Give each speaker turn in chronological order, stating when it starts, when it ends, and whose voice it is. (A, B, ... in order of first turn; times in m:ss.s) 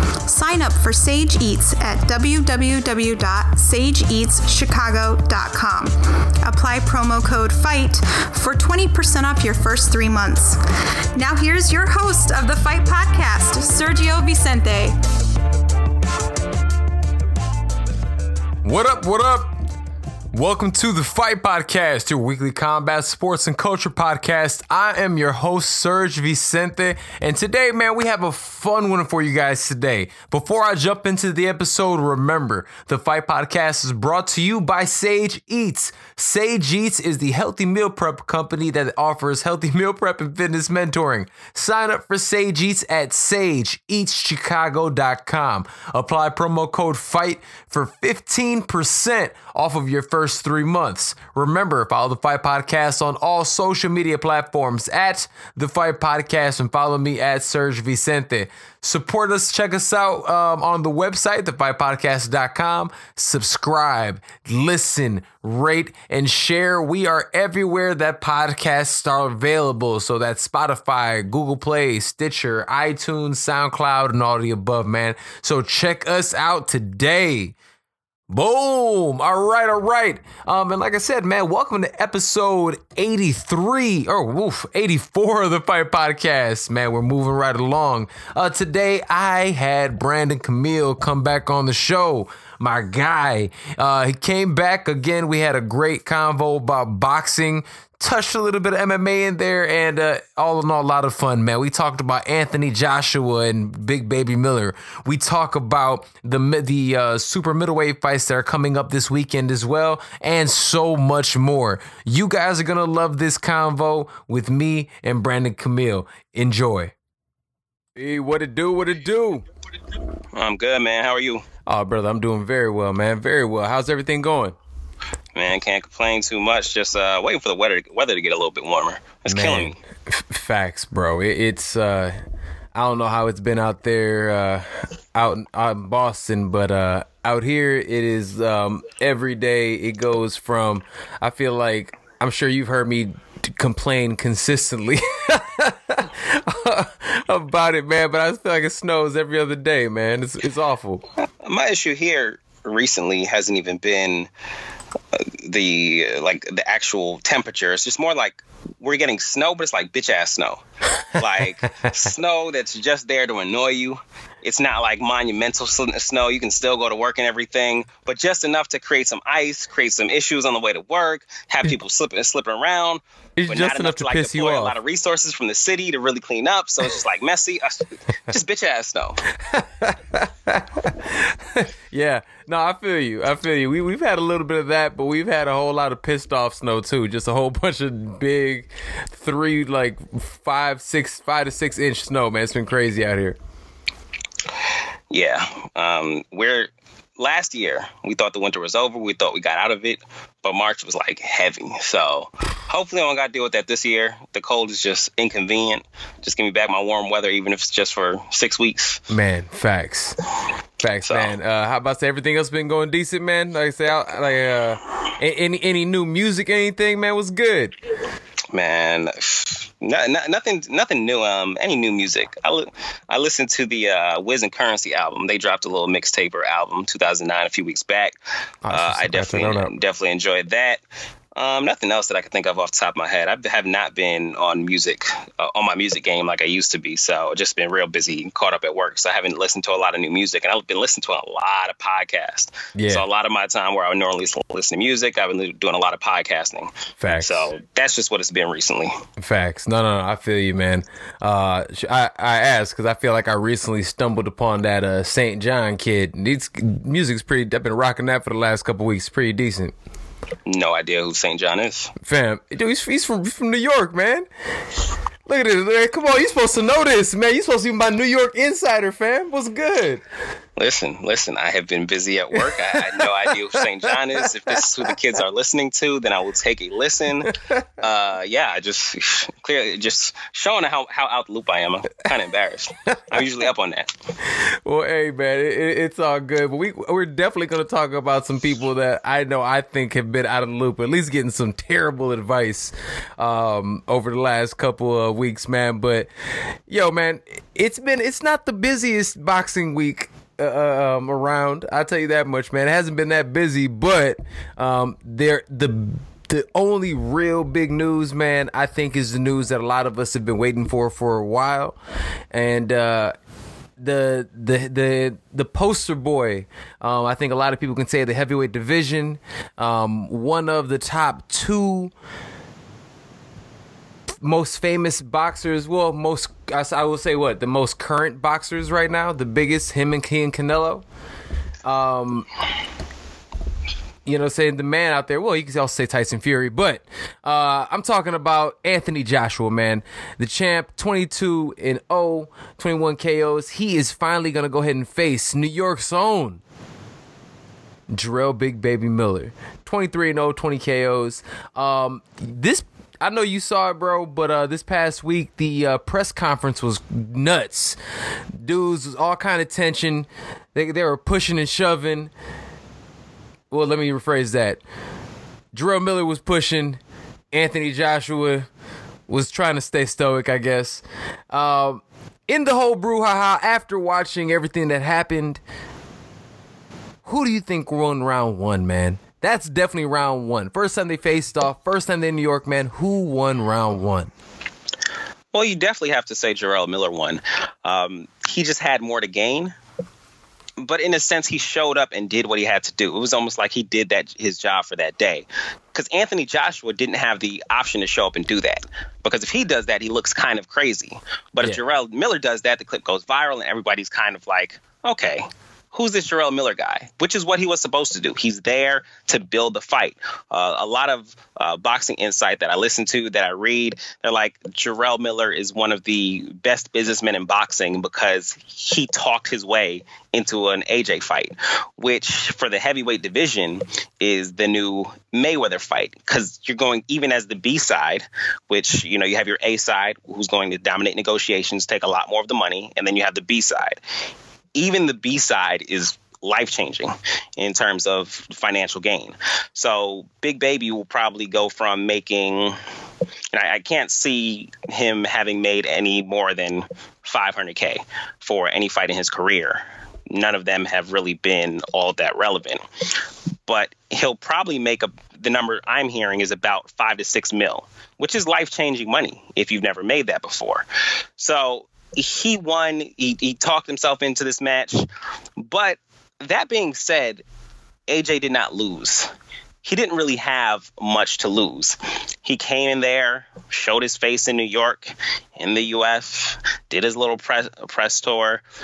0:00.2-0:10.6 A
0:11.1-0:15.0 A
0:18.6-0:19.5 B
0:20.3-1:17.6 B
1:18.3-1:56.9 B
1:58.0-1:59.4 B
2:00.3-2:01.4 C
2:01.6-2:04.6 B
2:05.3-2:09.8 C
2:09.3-2:12.2 B
2:12.7-2:31.0 B
2:31.4-2:34.3 C
2:35.1-2:59.2 C
2:53.4-2:54.8 B
2:59.3-3:13.4 B
3:15.1-3:29.0 C
3:29.1-3:30.2 B
3:30.8-3:37.7 B
3:31.0-3:31.3 C
3:38.5-3:48.1 C
3:48.6-3:49.7 B
3:48.7-3:50.8 C
3:51.4-4:09.0 C
4:02.7-4:03.0 B
4:07.0-4:07.5 B
4:09.2-4:19.7 B
4:20.4-4:21.9 C
4:22.0-4:24.3 B
4:25.2-4:30.0 B
4:30.6-4:43.9 C
4:32.3-4:35.0 B
4:42.9-4:43.2 B
4:44.3-5:11.8 B
5:12.3-5:13.1 B
5:13.8-5:21.9 B
5:24.2-5:30.8 B
5:31.6-5:32.3 B
5:34.0-5:46.4 B
5:47.9-5:57.8 B
5:58.4-6:02.1 B
6:03.5-6:04.6 B
6:05.5-6:06.8 B
6:07.3-6:08.5 B
6:09.1-6:15.4 B
6:17.0-6:24.1 B
6:25.3-6:29.5 C
6:30.6-7:13.8 C
7:14.5-7:22.6 C
7:23.3-7:32.6 C
7:33.4-7:40.6 C
7:41.2-7:44.9 C
7:45.4-7:47.2 C
7:47.9-7:49.1 C
7:49.6-7:58.4 C